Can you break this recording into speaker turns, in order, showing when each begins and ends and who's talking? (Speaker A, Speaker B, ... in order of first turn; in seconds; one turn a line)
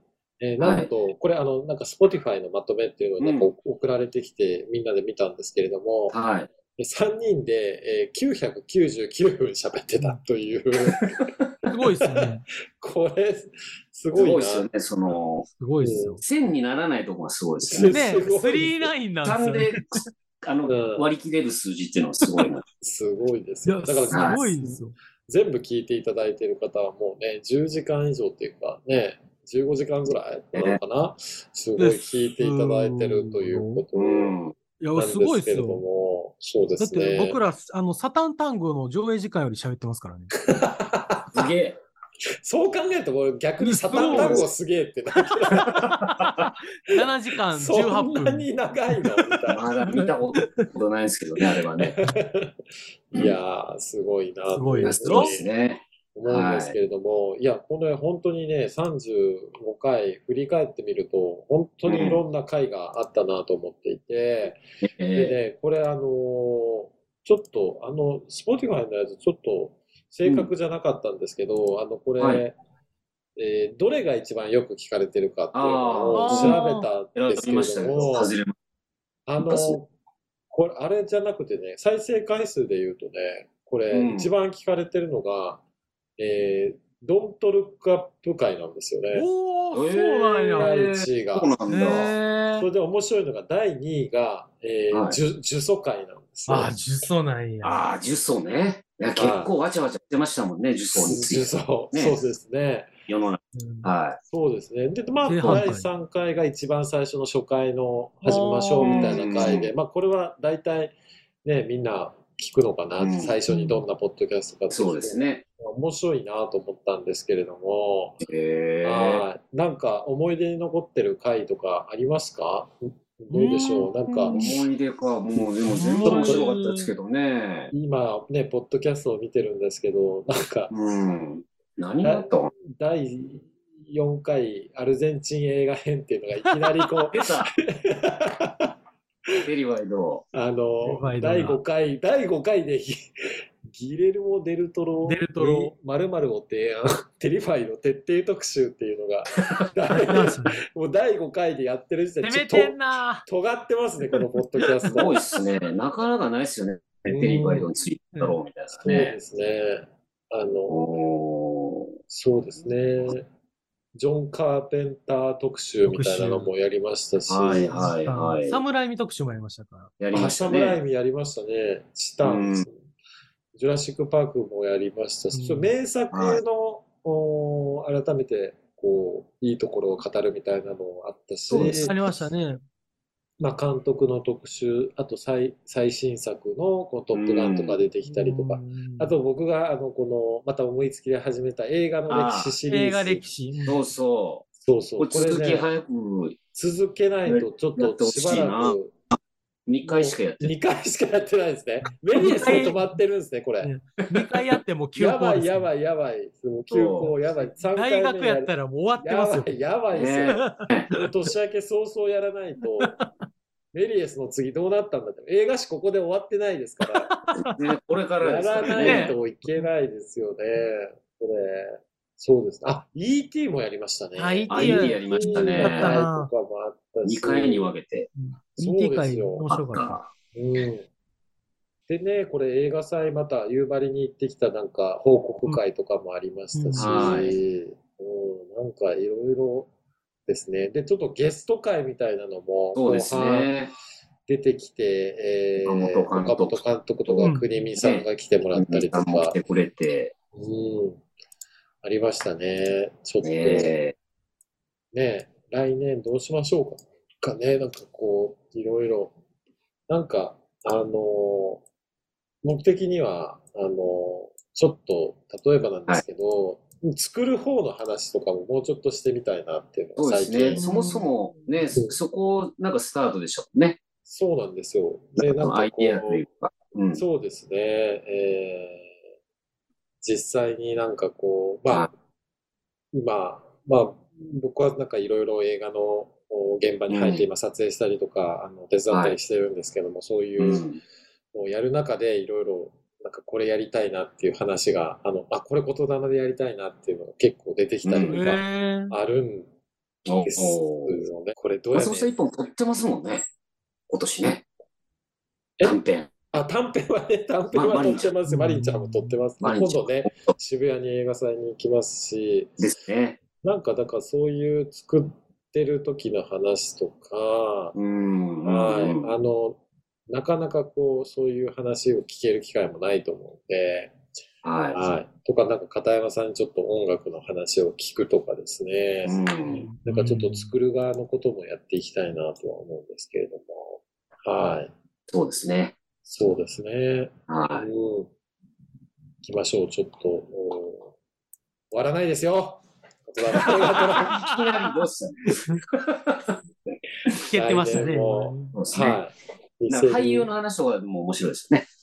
Speaker A: 0.4-6.2
Speaker B: 0.6-0.9
Speaker B: 3.2-3.5
Speaker B: 6.1-6.5
Speaker A: 6.8-11.3
Speaker B: 10.9-11.2
Speaker C: 11.7-12.4
Speaker A: 12.0-14.7
Speaker B: 14.1-15.5
Speaker C: 15.6-16.2
Speaker A: 15.8-16.2
Speaker B: 16.2-18.2
Speaker A: 17.6-18.9
Speaker C: 17.8-19.8
Speaker B: 19.2-22.6
Speaker A: 20.7-21.1
Speaker A: 22.8-34.4
Speaker C: 23.6-25.0
Speaker B: 24.1-24.4
Speaker C: 31.8-33.9
Speaker B: 33.9-34.5
Speaker C: 34.8-35.8
Speaker A: 35.0-37.4
Speaker C: 36.8-40.3
Speaker A: 40.4-41.5
Speaker B: 41.3-41.8
Speaker A: 42.4-45.9
Speaker C: 43.6-44.5
Speaker B: 43.9-44.5
Speaker C: 45.4-49.3
Speaker B: 46.0-46.5
Speaker A: 47.5-49.6
Speaker B: 49.5-52.0
Speaker C: 49.9-50.7
Speaker A: 51.8-52.5
Speaker A: 53.1-55.5
Speaker C: 54.5-55.4
Speaker B: 54.8-56.8
Speaker A: 56.1-64.6
Speaker B: 61.9-62.2
Speaker B: 64.9-65.4
Speaker A: 65.2-72.6
Speaker B: 72.2-72.5
Speaker A: 73.4-78.3
Speaker B: 75.5-78.5
Speaker C: 76.1-76.9
Speaker A: 79.3-79.9
Speaker B: 79.4-79.8
Speaker A: 80.5-85.6
Speaker B: 83.9-84.3
Speaker A: 86.2-89.3
Speaker C: 89.1-90.7
Speaker B: 89.7-92.2
Speaker A: 90.6-92.0
Speaker C: 91.7-92.7
Speaker A: 92.5-96.8
Speaker B: 94.9-95.2
Speaker C: 96.5-97.8
Speaker B: 97.6-102.2
Speaker A: 99.2-99.5
Speaker A: 100.9-102.9
Speaker B: 103.1-104.2
Speaker C: 103.5-103.9
Speaker A: 104.3-118.2
Speaker C: 105.2-105.9
Speaker C: 108.2-109.2
Speaker B: 108.8-109.7
Speaker B: 113.0-113.4
Speaker C: 113.5-113.8
Speaker B: 114.7-115.4
Speaker B: 118.2-119.2
Speaker A: 118.8-124.5
Speaker C: 123.3-124.6
Speaker B: 124.3-127.7
Speaker C: 125.7-126.9
Speaker A: 126.0-126.5
Speaker A: 127.7-130.7
Speaker B: 130.7-132.5
Speaker A: 132.0-138.7
Speaker B: 137.1-137.6
Speaker B: 139.4-140.3
Speaker A: 140.3-143.1
Speaker C: 140.8-141.6
Speaker A: 143.7-155.2
Speaker C: 145.1-145.7
Speaker B: 149.4-149.7
Speaker C: 149.9-150.6
Speaker C: 152.2-153.2
Speaker C: 154.6-155.2
Speaker B: 154.9-159.2
Speaker A: 157.1-157.7
Speaker A: 158.8-160.9
Speaker B: 160.7-161.9
Speaker A: 162.1-163.3
Speaker A: 163.9-167.9
Speaker C: 165.8-166.5
Speaker B: 167.3-168.6
Speaker C: 167.5-169.9
Speaker B: 170.0-170.8
Speaker A: 170.1-172.8
Speaker B: 172.2-172.7
Speaker A: 173.6-182.1
Speaker C: 175.3-175.7
Speaker B: 176.1-176.4
Speaker B: 181.5-181.9
Speaker C: 181.8-182.6
Speaker A: 183.4-193.3
Speaker B: 187.1-187.8
Speaker C: 188.1-189.1
Speaker B: 192.1-192.6
Speaker C: 192.7-193.8
Speaker B: 193.7-194.5
Speaker A: 194.6-195.7
Speaker B: 195.0-196.4
Speaker A: 196.5-198.9
Speaker B: 197.3-198.8
Speaker B: 199.7-200.5
Speaker A: 199.8-203.7
Speaker C: 201.8-203.0
Speaker B: 202.3-202.6
Speaker C: 203.6-205.7
Speaker A: 204.9-213.0
Speaker B: 206.7-207.2
Speaker C: 207.7-209.5
Speaker B: 209.9-210.9
Speaker C: 210.3-211.1
Speaker C: 212.8-213.1
Speaker A: 213.7-217.1
Speaker C: 217.0-217.6
Speaker B: 217.4-219.2
Speaker A: 218.2-227.7
Speaker C: 218.8-219.7
Speaker C: 224.2-226.3
Speaker B: 224.5-226.0
Speaker B: 227.0-228.1
Speaker C: 228.2-230.0
Speaker A: 228.6-229.5
Speaker B: 229.5-230.1
Speaker A: 230.3-230.9
Speaker A: 231.9-239.7
Speaker C: 236.5-237.2
Speaker B: 236.8-237.4
Speaker A: 240.3-243.6
Speaker B: 242.8-243.7
Speaker A: 244.3-249.4
Speaker B: 245.7-250.1
Speaker A: 250.3-251.0
Speaker A: 251.8-253.7
Speaker B: 253.2-253.9
Speaker A: 254.9-259.1
Speaker A: 259.9-261.6
Speaker A: 262.4-270.6
Speaker B: 270.0-273.8
Speaker C: 270.6-271.7
Speaker A: 274.1-276.2
Speaker B: 275.2-277.0
Speaker A: 276.9-278.9
Speaker A: 280.0-281.9
Speaker A: 282.9-290.7
Speaker B: 286.9-287.2
Speaker B: 288.9-289.2
Speaker B: 290.4-290.8
Speaker A: 291.3-299.5
Speaker B: 297.8-298.2
Speaker C: 298.1-299.0
Speaker B: 300.1-301.0
Speaker A: 300.2-302.1
Speaker B: 301.7-303.3
Speaker B: 303.9-304.4
Speaker B: 305.6-306.1
Speaker A: 306.3-312.5
Speaker B: 307.5-308.1
Speaker C: 308.3-309.2
Speaker B: 309.4-310.1
Speaker B: 312.6-313.2
Speaker A: 313.4-317.8
Speaker B: 317.8-319.1
Speaker A: 318.4-323.9
Speaker B: 324.4-324.9
Speaker A: 324.7-329.2
Speaker B: 329.1-329.7
Speaker C: 329.5-330.5
Speaker A: 329.8-334.7
Speaker B: 335.1-335.8
Speaker A: 336.1-338.1
Speaker B: 337.3-337.7
Speaker A: 339.2-340.9
Speaker A: 341.7-344.2
Speaker B: 343.4-346.4
Speaker C: 344.1-344.8
Speaker C: 345.3-345.6
Speaker C: 347.3-348.5
Speaker A: 347.3-350.3
Speaker B: 348.5-349.0
Speaker B: 349.7-351.7